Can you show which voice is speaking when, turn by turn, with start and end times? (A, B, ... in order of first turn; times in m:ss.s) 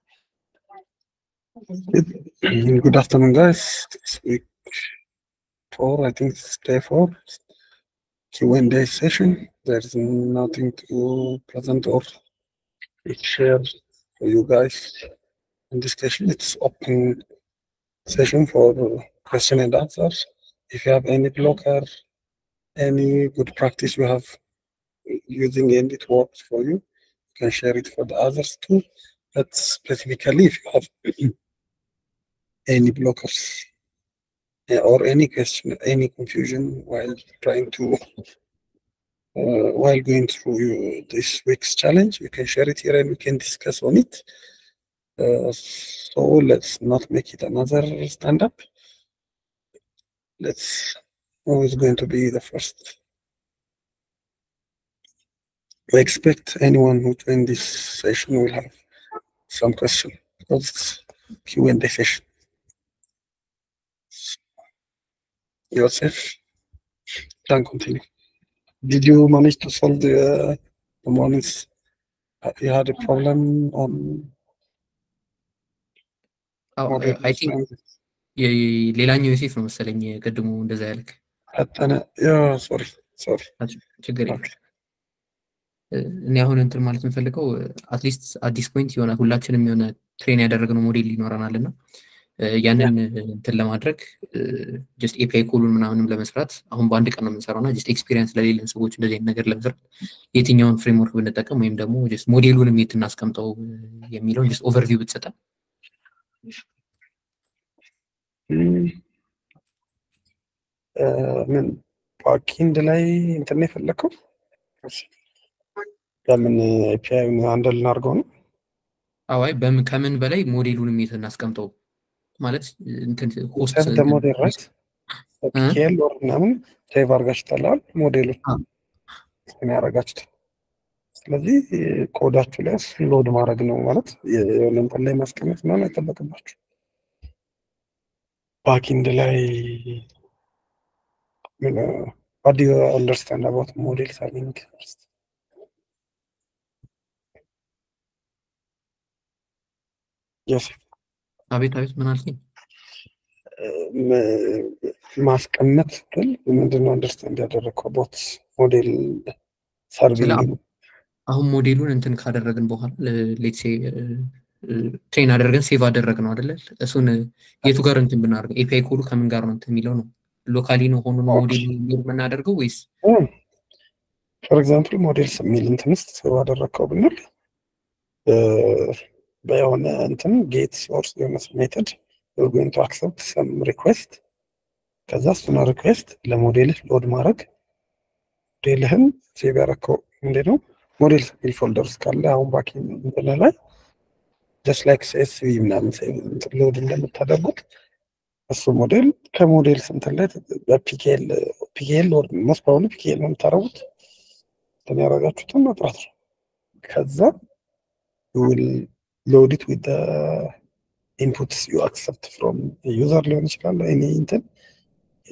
0:01.9-0:04.5 A
0:05.7-0:07.4 A
0:08.3-0:12.2 A
0:13.0-0:13.7 A
0:14.2-0:15.1 A
0:15.7-0:17.2 A
0:18.1-0:21.9 A
0:22.8-0:24.4 A
0:25.1-0:26.8 A
0:27.4-0:31.3 A
0:32.7-0:33.7 A
0:34.7-0:38.0 A
0:39.3-0:44.3 A
0:45.2-0:48.6 A
0:50.4-0:53.0 A
0:55.9-0:58.8 A
0:59.5-1:02.2 A
1:05.7-1:06.4 A
1:07.4-1:08.1 A
1:08.8-1:11.7 A
1:12.4-1:14.3 A
1:16.8-1:17.6 B
1:16.9-1:17.8 A
1:18.4-1:21.2 B
1:21.6-1:23.5 A
1:23.6-1:24.4 B
1:25.9-1:31.7 B
1:32.4-1:39.8 B
1:40.3-1:45.3 B
1:48.5-1:49.0 A
1:51.0-1:54.1 A
1:54.8-1:55.1 A
1:56.3-1:58.3 A
1:59.3-2:01.7 B
2:02.4-2:04.6 B
2:03.6-2:04.7 A
2:05.4-2:08.4 A
2:09.5-2:10.3 A
2:11.2-2:16.6 A
2:18.6-2:20.1 A
2:21.6-2:25.0 A
2:30.5-2:30.8 A
2:31.5-2:32.4 B
2:33.6-2:39.3 A
2:39.9-2:40.6 A
2:40.2-2:40.5 B
2:41.3-2:52.9 B
2:51.3-2:51.7 A
2:53.0-2:53.3 A
2:54.5-2:57.2 A
2:58.2-3:04.2 A
3:05.1-3:07.5 A
3:08.6-3:13.6 A
3:14.6-3:17.6 A
3:18.5-3:23.8 A
3:24.9-3:26.1 A
3:26.8-3:27.3 A
3:28.3-3:30.6 A
3:31.2-3:34.4 A